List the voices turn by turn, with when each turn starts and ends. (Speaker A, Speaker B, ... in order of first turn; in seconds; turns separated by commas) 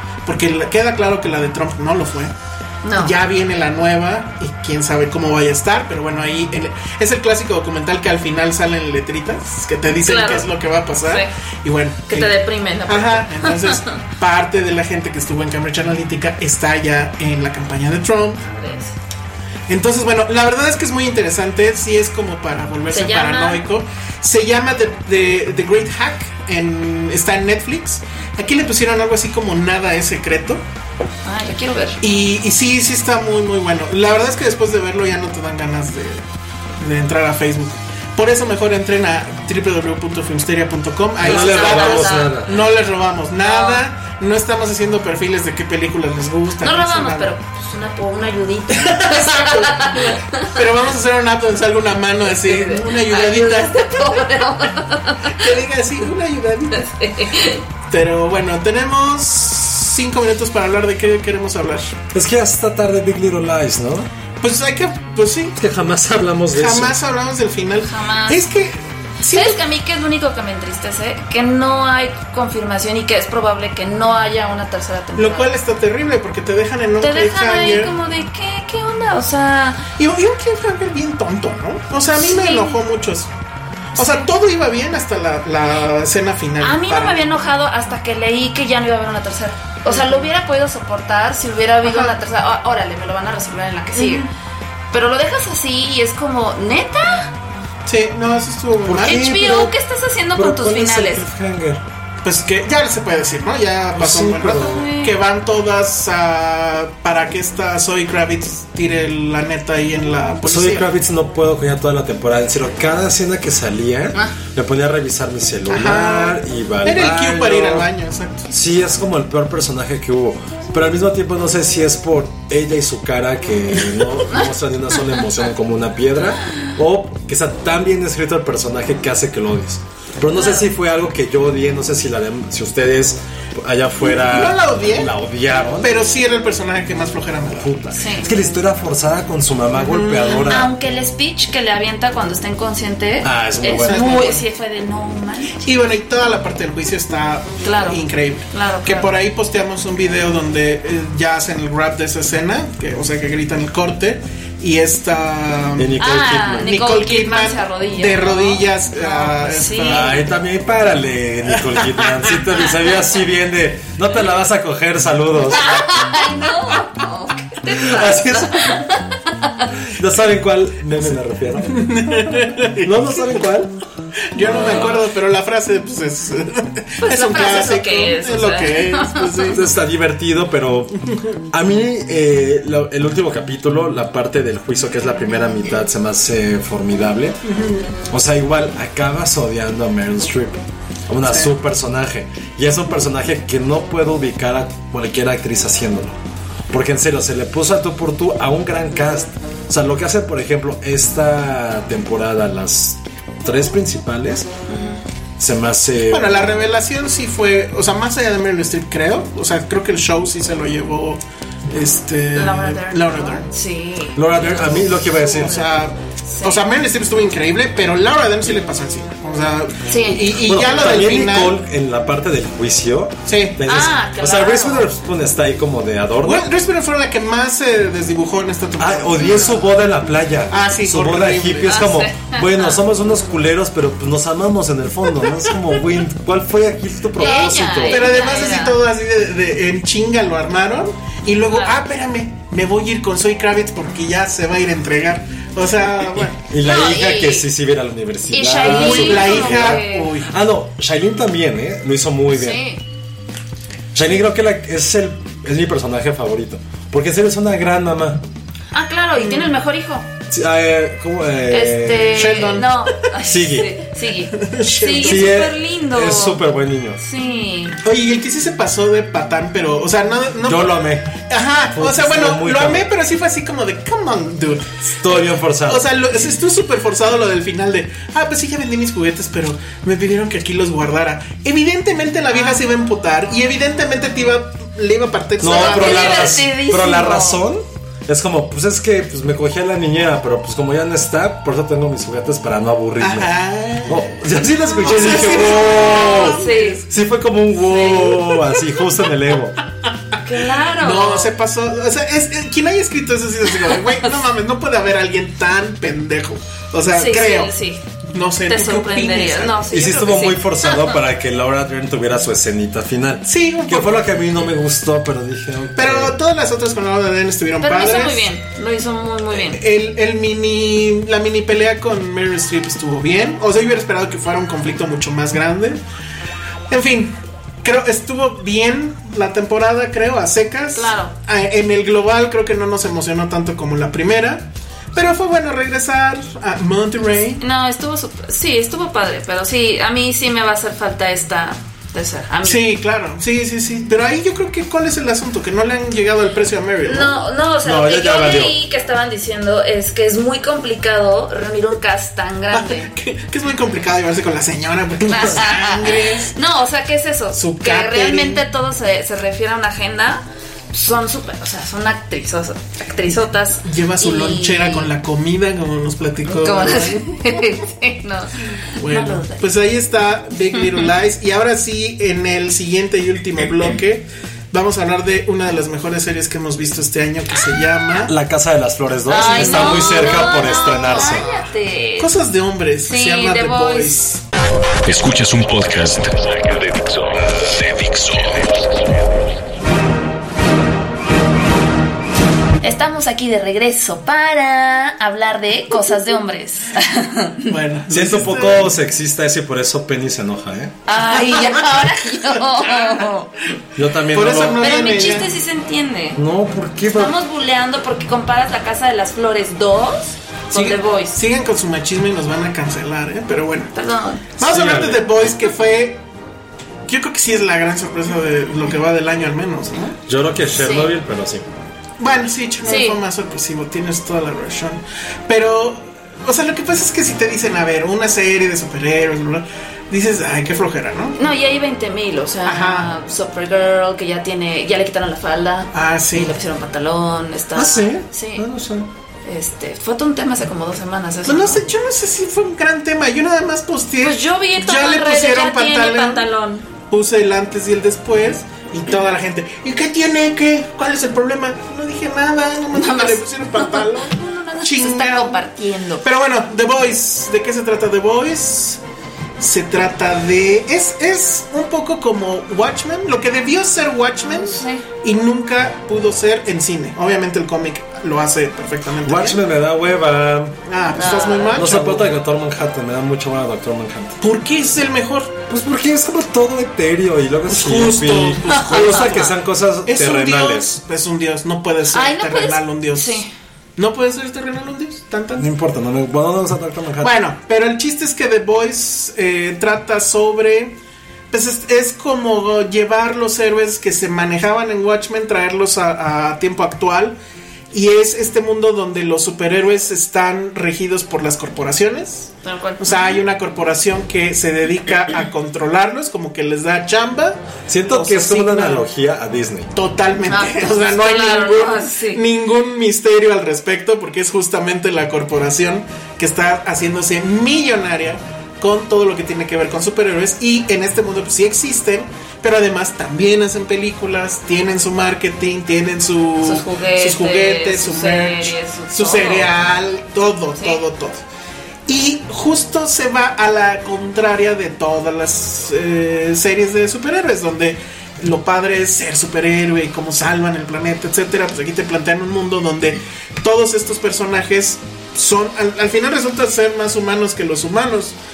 Speaker A: 0.2-2.3, Speaker B: 2.8-3.1, Speaker A: 3.0-18.4, Speaker B: 10.0-10.5, Speaker B: 11.0-11.3, Speaker B: 12.1-13.9, Speaker B: 18.4-18.9, Speaker A: 19.7-30.6, Speaker B: 22.9-23.6, Speaker B: 31.2-32.0, Speaker A: 32.0-36.2, Speaker A: 36.8-47.3, Speaker C: 41.2-42.5, Speaker B: 41.2-42.6, Speaker B: 43.4-43.8, Speaker B: 46.6-50.5, Speaker A: 48.7-54.4, Speaker B: 52.3-55.4, Speaker A: 55.3-56.9, Speaker B: 56.7-57.6, Speaker A: 57.9-61.9, Speaker C: 62.1-64.1, Speaker A: 64.4-65.6, Speaker C: 65.5-67.0, Speaker A: 66.5-69.6, Speaker B: 67.8-68.4, Speaker B: 69.3-75.5, Speaker A: 75.2-77.9, Speaker B: 77.0-79.8, Speaker A: 80.0-83.3, Speaker B: 82.1-82.8, Speaker B: 84.0-84.3, Speaker A: 84.0-87.2, Speaker B: 86.6-94.3, Speaker A: 89.8-90.3, Speaker A: 91.8-92.1, Speaker A: 94.0-94.3, Speaker B: 94.9-97.3, Speaker A: 97.8-99.2, Speaker C: 98.8-99.7, Speaker B: 99.0-101.2, Speaker C: 100.3-101.8, Speaker A: 102.2-110.9, Speaker C: 104.0-104.8, Speaker B: 104.6-105.1, Speaker C: 110.4-117.9, Speaker A: 115.7-118.5, Speaker C: 118.5-135.9, Speaker B: 130.3-130.7, Speaker A: 134.0-135.1, Speaker A: 135.8-137.7, Speaker C: 137.6-140.7, Speaker B: 137.9-138.3, Speaker A: 139.7-140.5, Speaker B: 140.4-145.7, Speaker C: 143.2-144.0, Speaker A: 143.8-144.4, Speaker A: 145.6-156.0, Speaker B: 147.6-148.0, Speaker B: 148.5-149.1, Speaker C: 155.8-156.7, Speaker B: 156.0-160.1, Speaker A: 156.6-160.2, Speaker C: 159.9-165.9, Speaker A: 161.5-162.4, Speaker B: 165.5-169.7, Speaker C: 167.7-168.8, Speaker C: 169.9-173.7, Speaker A: 171.7-173.4, Speaker A: 174.3-179.7, Speaker C: 174.4-175.1, Speaker B: 177.0-179.6, Speaker C: 179.5-181.0, Speaker A: 181.0-181.3, Speaker C: 181.5-187.4, Speaker A: 187.4-187.9, Speaker C: 188.1-196.2, Speaker A: 191.2-191.5, Speaker C: 196.7-204.5, Speaker B: 204.7-205.0, Speaker C: 205.4-206.4, Speaker A: 206.1-213.5, Speaker B: 212.3-214.8, Speaker C: 214.1-215.6, Speaker A: 214.4-221.6, Speaker B: 216.2-216.6, Speaker B: 219.9-220.3, Speaker C: 220.4-226.5, Speaker A: 223.2-223.6, Speaker B: 223.7-224.9, Speaker A: 226.2-229.8, Speaker C: 228.8-238.1, Speaker A: 230.5-231.8, Speaker B: 231.7-232.8, Speaker B: 237.2-238.8, Speaker A: 237.9-246.4, Speaker B: 241.5-241.8, Speaker C: 246.5-252.6, Speaker B: 246.6-247.4, Speaker B: 248.3-250.1, Speaker A: 248.6-250.3, Speaker B: 252.3-252.8, Speaker C: 253.9-258.2, Speaker B: 258.7-260.1, Speaker A: 259.2-259.5, Speaker C: 260.3-262.2, Speaker B: 261.5-266.4, Speaker A: 262.1-262.7, Speaker C: 263.2-263.7, Speaker A: 264.4-265.4, Speaker C: 265.0-267.0, Speaker B: 267.0-267.8, Speaker A: 267.8-286.4, Speaker C: 270.4-271.1, Speaker C: 271.7-272.9, Speaker C: 275.0-275.9, Speaker B: 282.3-282.6, Speaker C: 285.4-293.3, Speaker B: 285.5-287.4, Speaker A: 293.0-294.2, Speaker C: 293.9-299.6, Speaker A: 294.8-296.9, Speaker B: 296.0-296.8, Speaker B: 300.2-301.3, Speaker A: 300.8-307.5, Speaker B: 306.9-307.8, Speaker A: 308.1-309.6, Speaker B: 308.5-311.0, Speaker C: 309.7-316.1, Speaker A: 313.2-314.3, Speaker A: 315.8-318.3, Speaker B: 317.6-319.6, Speaker A: 319.3-325.8, Speaker A: 326.7-337.4, Speaker B: 330.7-331.1, Speaker B: 337.4-342.6, Speaker A: 342.4-347.2, Speaker B: 346.9-352.9, Speaker C: 347.6-348.6, Speaker A: 352.5-356.3, Speaker B: 355.1-364.9, Speaker A: 357.3-358.4, Speaker A: 363.6-367.2, Speaker B: 366.4-369.4, Speaker A: 368.7-378.1, Speaker B: 370.6-370.9, Speaker C: 378.0-381.3, Speaker B: 379.1-382.1, Speaker A: 379.2-381.3, Speaker A: 382.0-384.2, Speaker B: 382.8-384.0, Speaker D: 384.8-389.0, Speaker B: 392.6-397.6, Speaker A: 397.5-398.7, Speaker C: 397.9-400.8, Speaker B: 400.9-403.3, Speaker A: 401.1-403.1, Speaker C: 403.8-404.6, Speaker A: 404.1-405.3, Speaker B: 404.6-406.2, Speaker C: 406.1-407.1, Speaker B: 406.9-411.2, Speaker A: 410.5-413.7, Speaker B: 413.7-414.4, Speaker A: 414.4-416.0, Speaker C: 414.4-415.2, Speaker A: 416.9-420.0, Speaker C: 420.1-421.5, Speaker B: 420.6-420.9, Speaker A: 422.0-431.2, Speaker B: 422.6-423.0, Speaker B: 431.1-438.4, Speaker A: 432.4-432.9, Speaker A: 435.7-436.3, Speaker C: 437.6-438.9, Speaker B: 439.2-441.7, Speaker A: 441.2-446.3, Speaker B: 444.0-446.6, Speaker A: 446.9-455.4, Speaker B: 452.7-456.0, Speaker A: 456.0-458.8, Speaker A: 459.4-469.4, Speaker B: 464.2-464.8, Speaker C: 469.0-470.6, Speaker A: 470.6-472.1, Speaker B: 470.9-471.6, Speaker C: 471.5-474.2, Speaker A: 474.2-475.4, Speaker C: 475.5-480.7, Speaker A: 477.5-479.3, Speaker B: 478.5-479.3, Speaker A: 479.8-483.2, Speaker B: 481.9-483.3, Speaker A: 483.8-485.5, Speaker C: 485.4-487.1, Speaker A: 487.0-490.8, Speaker A: 491.3-497.1, Speaker A: 497.7-508.9, Speaker B: 502.4-503.2, Speaker C: 507.7-509.7, Speaker A: 509.7-531.2, Speaker B: 510.3-512.2, Speaker B: 526.4-529.5, Speaker B: 530.6-530.8, Speaker A: 531.9-548.1